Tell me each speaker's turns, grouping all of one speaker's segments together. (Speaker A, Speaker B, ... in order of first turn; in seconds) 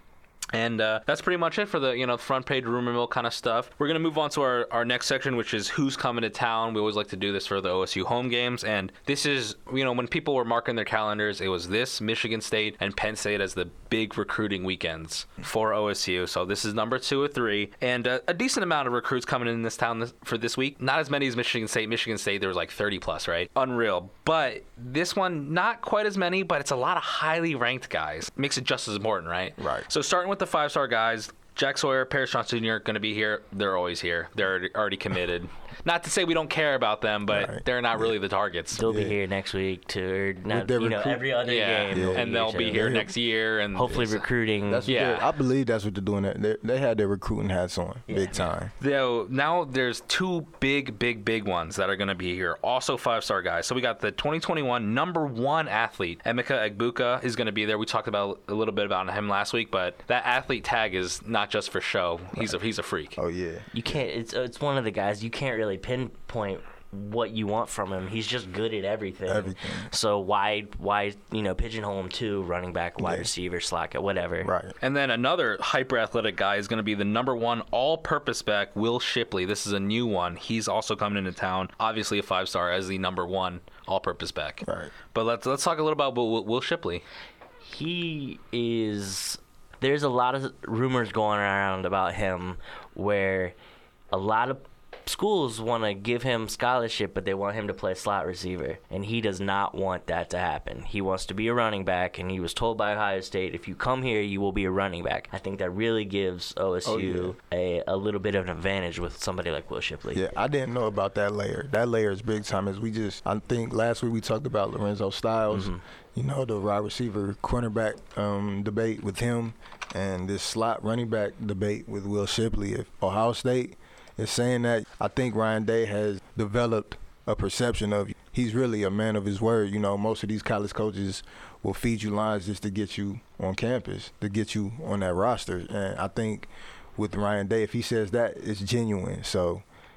Speaker A: 0.5-38.9, 41.4-44.2, 44.9-45.2, 48.8-63.2, 74.8-87.0
Speaker B: 29.6-29.9, 37.3-38.1, 38.8-39.2, 40.5-41.3, 41.9-43.1, 44.7-48.7, 63.2-63.7, 69.3-69.9, 73.0-73.3, 74.4-74.8, 84.6-84.9, 106.8-107.3, 110.1-139.6
Speaker C: 38.8-43.1, 43.7-44.9, 48.1-48.5, 63.7-74.5, 87.6-93.5, 94.1-110.2, 115.5-115.8